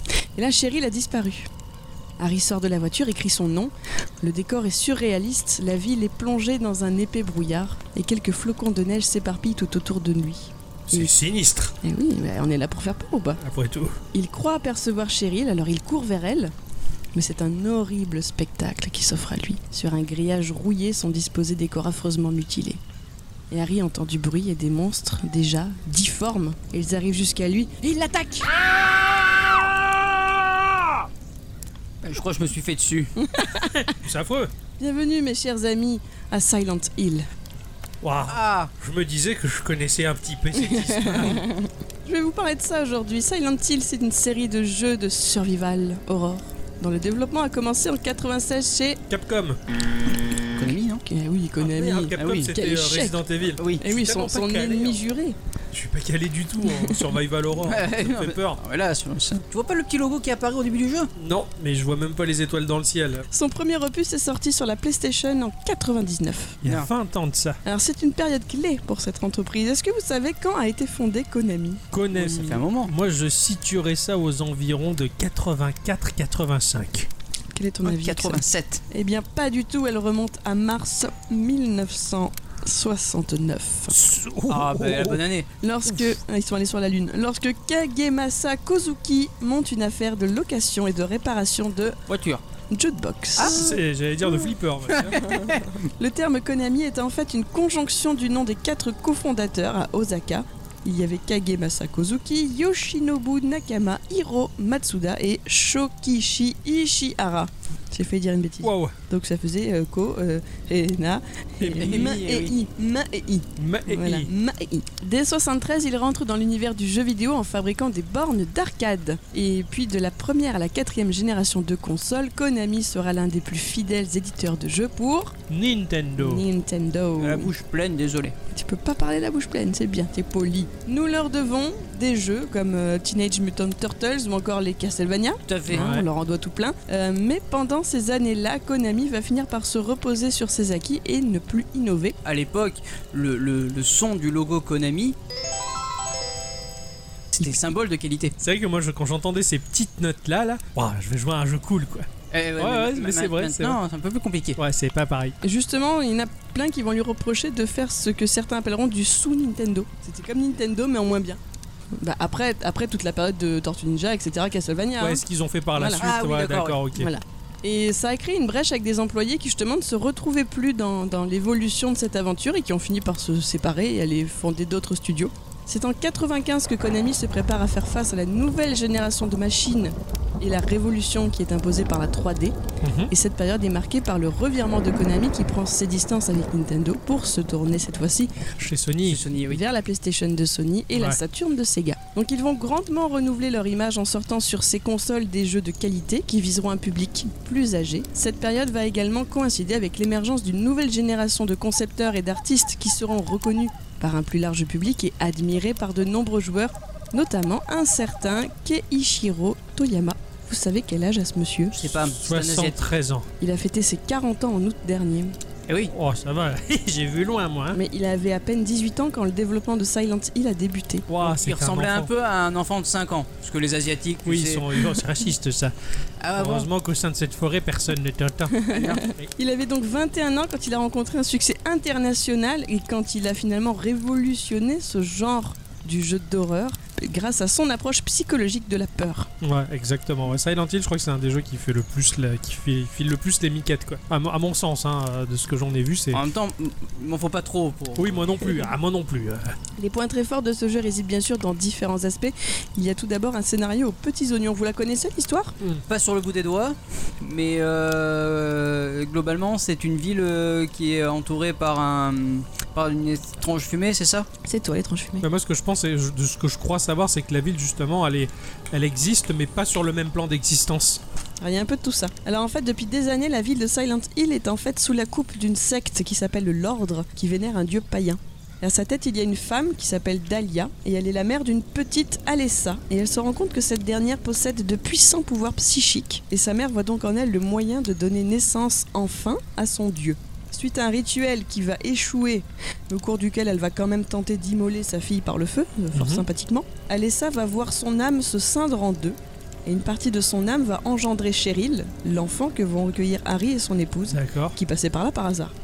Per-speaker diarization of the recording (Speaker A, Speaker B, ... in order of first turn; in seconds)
Speaker A: 0.3-1.5, 2.2-11.1, 11.8-13.4, 14.1-16.5, 17.1-22.8, 23.5-28.5, 33.2-33.9, 34.8-37.3, 40.6-49.0, 51.0-53.2, 53.8-55.4, 63.3-66.6, 67.6-71.8, 77.5-84.0, 85.6-92.0, 92.7-93.7, 96.0-125.3, 126.2-127.5, 128.5-142.2, 155.4-161.4, 162.0-165.2, 165.8-166.0, 166.9-182.5, 183.1-188.3, 189.5-211.8, 213.4-215.3, 217.7-221.1, 228.5-239.3, 249.8-255.6, 264.4-265.2, 271.4-305.5
Speaker B: 10.9-11.7, 13.4-14.0, 33.6-34.5, 38.0-41.4, 49.1-49.6, 51.6-55.0, 55.7-58.6, 61.1-63.3, 66.6-67.6, 71.9-77.1, 83.9-85.2, 93.4-95.4, 108.6-108.9, 111.7-112.1, 113.5-114.3, 125.5-126.5, 135.7-136.1, 148.4-153.8, 154.6-155.3, 165.0-167.1, 182.8-183.1, 188.6-189.2, 190.9-191.2, 211.9-213.3, 215.9-217.8, 221.1-222.1, 224.2-225.7, 226.3-229.3, 239.4-246.2, 247.9-249.5, 265.2-271.0, 295.9-296.2, 304.1-304.6
Speaker C: 32.0-33.1, 38.3-38.7, 50.5-51.0, 52.2-52.5, 53.6-53.8, 57.6-61.1, 72.1-72.9, 77.8-78.8, 84.5-85.5, 92.1-92.4, 94.9-95.8, 111.6-112.5, 127.2-128.3, 135.5-135.9, 142.2-145.2, 147.3-148.3, 152.3-154.6, 166.0-166.8, 189.1-189.6, 211.7-212.8, 221.2-224.9, 226.2-226.7, 228.7-229.0, 246.1-248.4, 255.9-264.3